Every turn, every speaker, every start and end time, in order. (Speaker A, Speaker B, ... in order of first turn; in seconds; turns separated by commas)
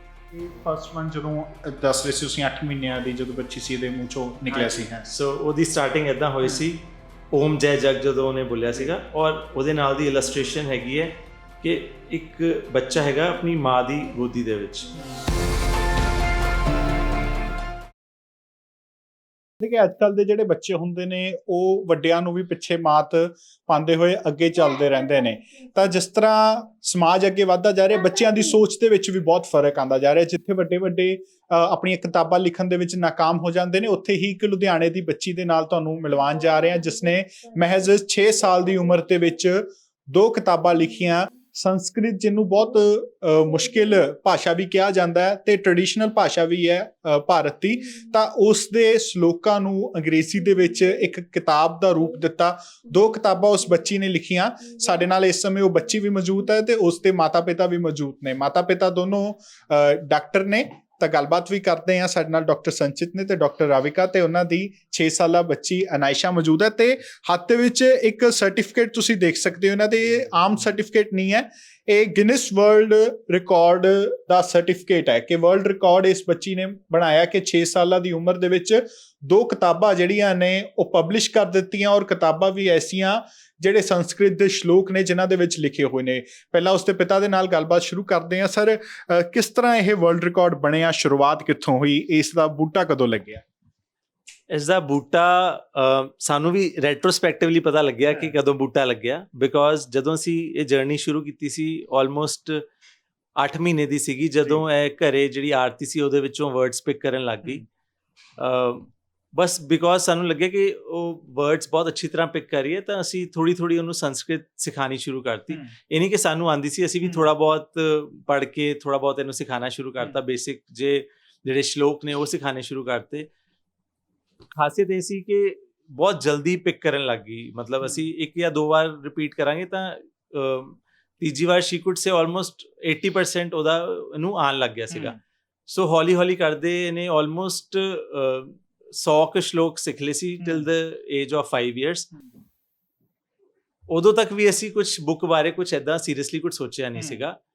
Speaker A: 0.3-5.1, Speaker B: 4.5-14.9, Speaker A: 6.4-6.7, Speaker A: 19.6-93.4, Speaker B: 94.5-102.6, Speaker A: 98.1-98.3, Speaker B: 103.4-107.6, Speaker B: 108.4-123.3, Speaker A: 117.0-117.3, Speaker B: 124.5-135.2, Speaker A: 127.8-128.1, Speaker A: 134.9-135.2, Speaker B: 135.7-142.1, Speaker A: 140.4-140.7, Speaker B: 143.9-147.4, Speaker A: 146.9-147.2